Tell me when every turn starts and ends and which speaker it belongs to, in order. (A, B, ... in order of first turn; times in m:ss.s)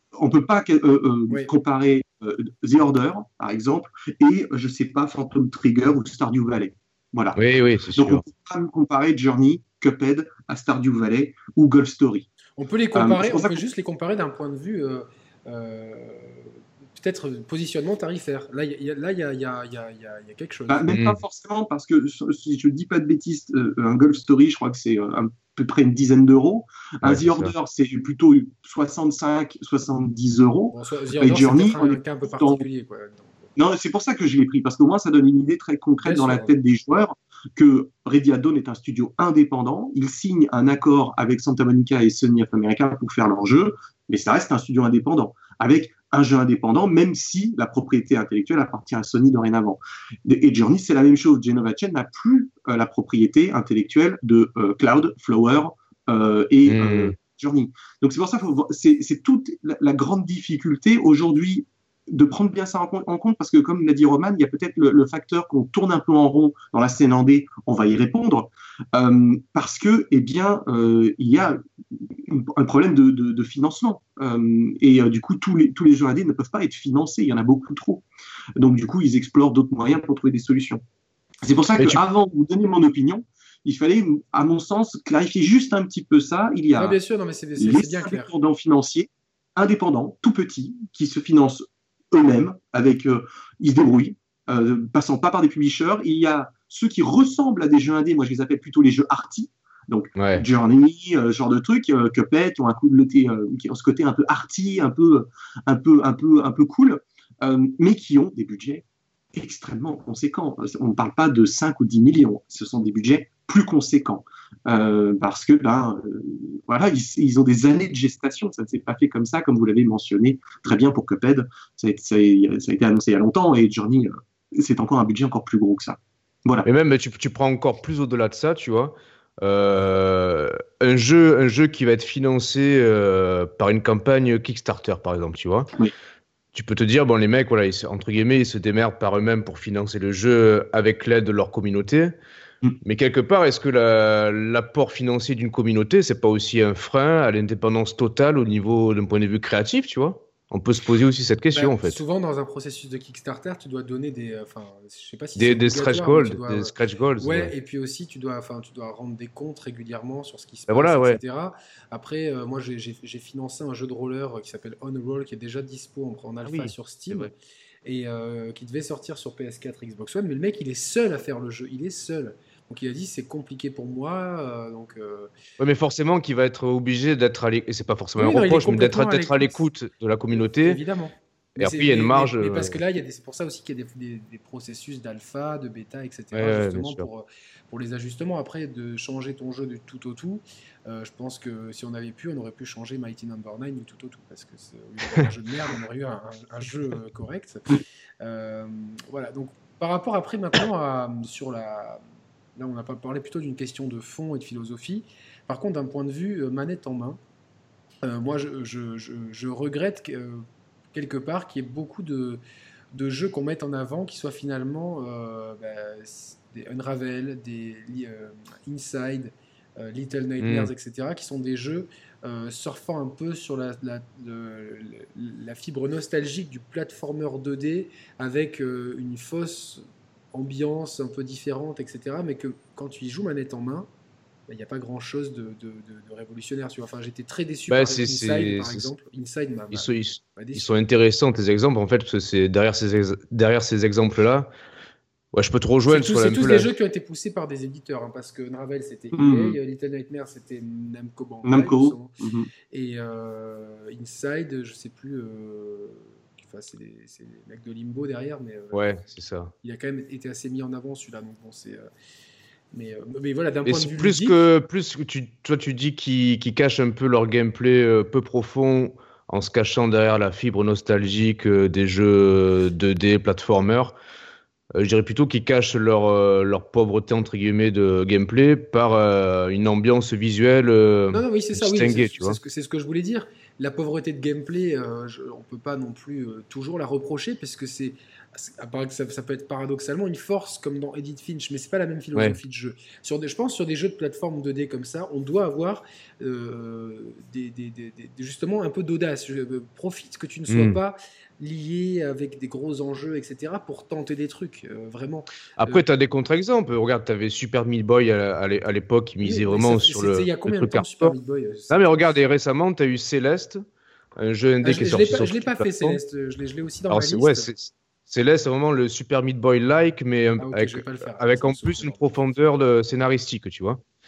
0:00.2-0:07.4 A
0:07.4-0:08.2 B
0:07.9-0:12.3 A
0:12.6-0:20.8 C
0:12.9-0:13.6 A
0:20.7-0:32.6 A
0:20.9-0:21.2 B
0:27.0-0:27.5 B
0:30.7-0:33.5 C
0:33.6-1:18.0 A
0:36.0-0:36.5 C
0:56.6-0:57.1 B
1:18.6-1:20.8 A
1:21.4-1:27.0 A
1:26.8-1:28.3 C
1:27.6-2:06.7 A
1:40.2-1:40.4 B
2:06.6-2:15.7 B
2:16.5-2:22.1 B
2:22.8-2:32.0 B
2:31.5-2:47.3 C
2:35.4-2:37.5 B
2:40.7-2:41.2 B
2:46.4-2:47.3 B
2:47.8-2:55.3 C
2:55.6-3:00.8 B
2:58.2-2:59.6 C
3:00.4-3:22.0 C
3:01.6-3:02.8 B
3:06.3-3:07.1 B
3:22.6-3:27.2 C
3:28.0-3:32.4 C
3:32.9-3:53.9 C
3:40.4-3:40.7 B
3:54.5-4:00.7 C
3:57.7-3:58.9 B
3:59.7-4:04.5 B
4:05.3-4:06.7 B
4:05.9-4:12.2 C
4:09.1-4:09.6 A
4:11.4-4:12.5 A
4:12.7-4:18.9 C
4:18.7-4:19.5 B
4:19.6-4:21.9 C
4:22.7-4:24.4 C
4:23.6-4:34.0 B
4:34.7-4:42.4 B
4:41.1-5:05.8 C
5:00.5-5:00.8 B
5:05.6-5:11.2 B
5:09.2-5:12.0 C
5:11.7-5:13.6 B
5:14.2-5:16.0 B
5:14.6-5:17.5 C
5:16.9-5:23.8 B
5:20.4-5:22.3 C